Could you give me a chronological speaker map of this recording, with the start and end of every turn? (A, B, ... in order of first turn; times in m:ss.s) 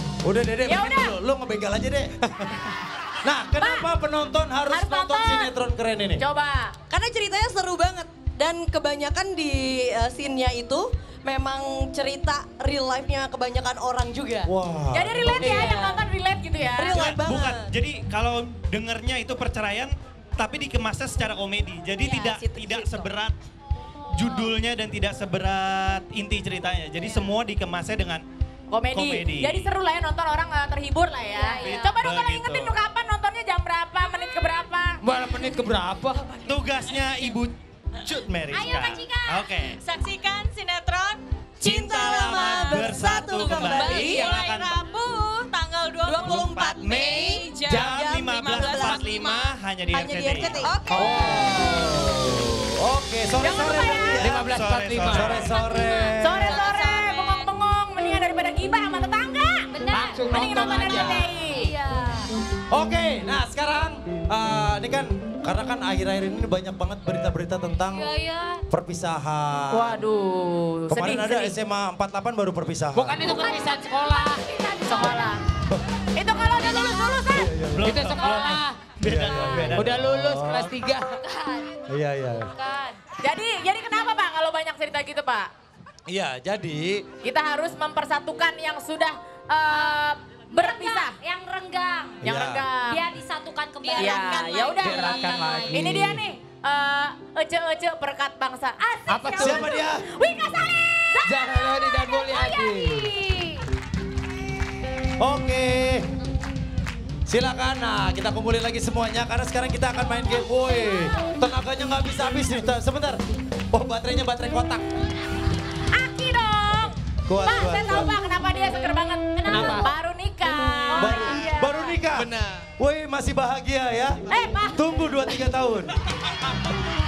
0:00.2-0:06.2 A
0:00.6-0:01.1 B
0:03.6-0:03.9 B
0:04.7-0:05.5 B
0:06.2-0:06.7 B
0:06.9-0:14.5 C
0:14.4-0:15.6 A
0:14.9-0:17.0 B
0:15.3-0:16.0 C
0:16.8-0:17.7 C
0:16.9-0:23.4 D
0:22.1-0:23.0 E
0:24.1-0:28.2 D
0:28.7-0:35.0 B
0:28.9-0:29.7 D
0:31.4-0:31.9 F
0:31.6-0:32.7 D
0:35.0-0:36.4 G
0:36.4-0:39.8 D
0:38.5-0:39.5 F
0:39.8-0:46.8 E
0:41.6-0:44.8 D
0:41.8-0:44.4 C
0:46.0-0:49.1 C
0:46.3-0:50.7 D
0:47.3-0:47.8 E
0:48.5-0:49.4 E
0:49.9-0:51.8 C
0:50.9-0:51.5 G
0:50.9-0:54.4 A
0:53.4-0:54.2 B
0:54.2-0:55.6 D
0:54.2-0:55.4 G
0:55.0-0:56.6 A
0:55.5-0:57.5 E
0:56.2-0:59.7 B
0:59.7-1:00.3 F
0:59.8-1:01.3 G
1:00.2-1:01.7 B
1:00.8-1:02.3 F
1:02.7-1:08.1 A
1:07.9-1:08.6 F
1:08.7-1:10.0 A
1:09.7-1:11.5 B
1:10.9-1:13.3 A
1:12.9-1:14.4 G
1:13.3-1:15.2 F
1:14.8-1:15.4 B
1:16.2-1:17.6 B
1:16.4-1:17.2 F
1:17.3-1:18.2 A
1:17.7-1:20.0 D
1:17.8-1:18.9 G
1:18.2-1:18.5 F
1:19.0-1:20.7 A
1:19.7-1:21.2 G
1:21.2-1:21.7 F
1:21.9-1:22.5 A
1:22.6-1:23.0 F
1:23.2-1:25.5 B
1:26.1-1:27.0 A
1:27.2-1:31.2 B
1:29.7-1:30.0 F
1:30.5-1:32.2 F
1:32.2-1:32.7 A
1:32.2-1:33.0 B
1:32.8-1:35.9 F
1:33.8-1:34.9 E
1:34.0-1:41.1 B
1:34.8-1:36.2 G
1:39.1-1:39.7 G
1:39.2-1:39.6 F
1:39.4-1:40.0 A
1:41.1-1:43.6 F
1:41.2-1:43.1 G
1:45.2-1:46.0 A
1:47.3-1:53.2 A
1:53.7-1:54.8 A
1:55.9-2:02.0 B
1:57.3-1:58.1 A
1:59.5-1:59.8 A
1:59.5-1:59.9 G
2:01.0-2:05.9 A
2:02.2-2:02.6 G
2:04.3-2:05.0 B